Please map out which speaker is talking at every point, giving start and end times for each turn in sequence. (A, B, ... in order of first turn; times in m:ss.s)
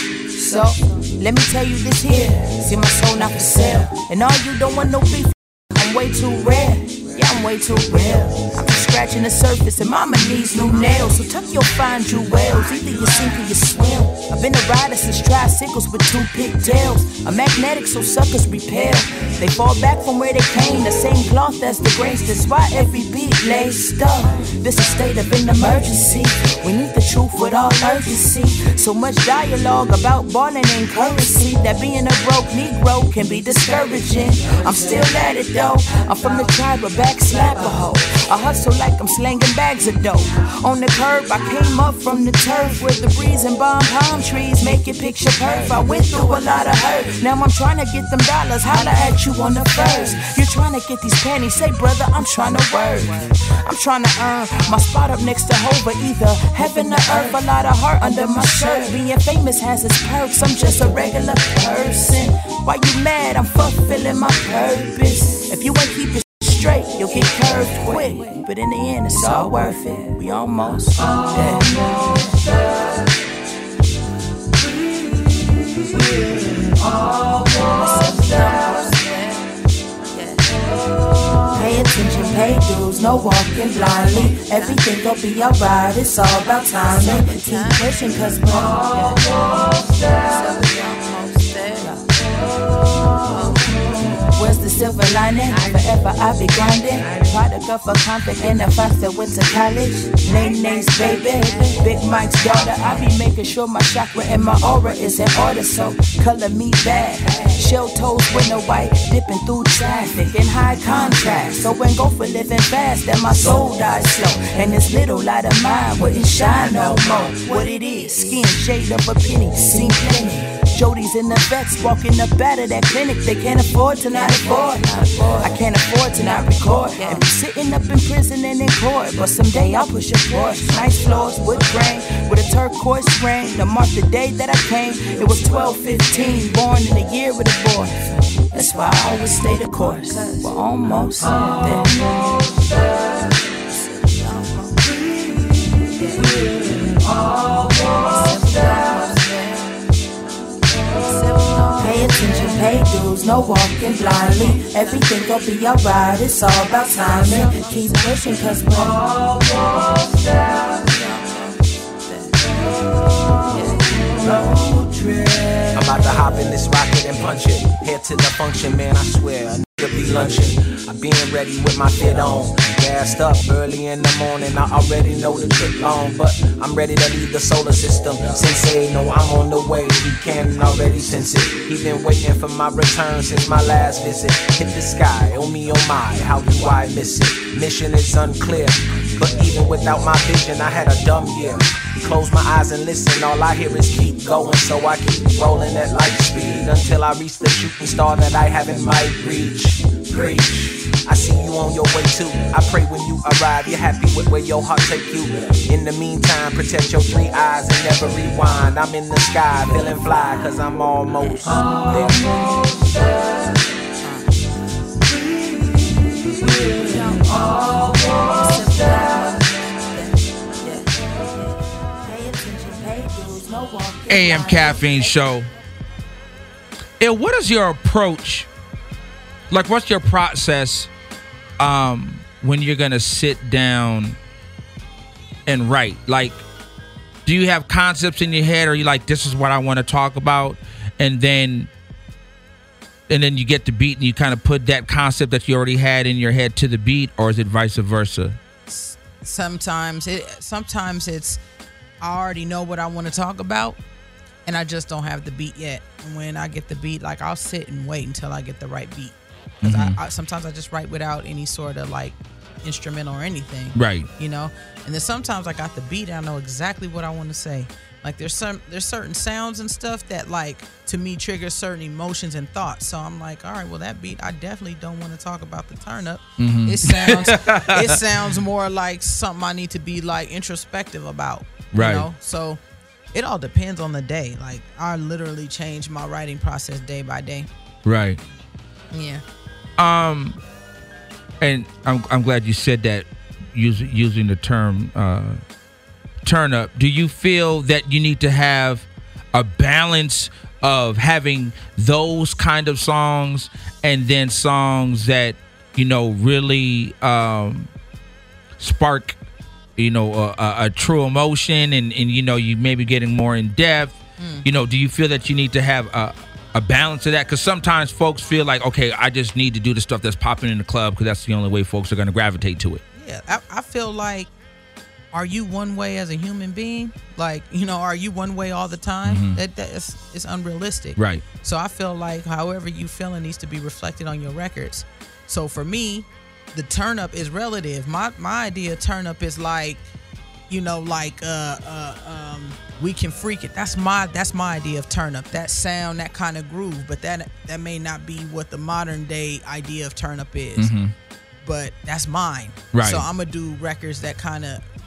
0:00.3-1:11.8 A
1:17.6-1:19.0 A
1:21.5-1:29.3 A
1:30.4-1:31.0 A
1:31.7-1:32.0 A
1:34.3-2:22.1 A
2:23.6-2:24.8 A
2:26.0-2:29.4 A
2:31.1-2:39.1 A
2:44.3-2:44.6 A
2:45.7-3:32.3 B
3:36.7-3:39.8 A
3:40.6-3:40.9 A
3:42.0-3:45.2 A
3:44.1-3:45.5 C
3:47.0-3:48.5 C
3:49.5-3:50.9 C
3:51.6-3:54.2 C
3:55.5-3:56.4 C
3:57.2-4:01.7 C
4:03.1-4:08.4 C
4:08.7-4:11.4 D
4:12.0-4:13.8 D
4:14.4-4:42.6 D
4:19.6-4:20.0 C
4:23.7-4:24.1 C
4:36.4-4:38.0 C
4:41.7-4:42.1 C
4:43.1-4:47.5 D
4:47.8-4:48.2 C
4:48.9-4:49.2 D
4:49.8-4:50.4 C
4:51.4-4:55.4 C
4:56.2-5:07.7 C
5:08.6-5:09.2 C
5:09.8-5:22.8 C
5:14.2-5:14.4 D
5:22.9-5:24.3 D
5:25.1-5:39.8 D
5:29.0-5:29.4 C
5:31.0-5:31.2 C
5:40.5-5:50.7 D
5:50.6-5:50.9 C
5:51.4-5:54.6 D
5:52.7-5:53.0 C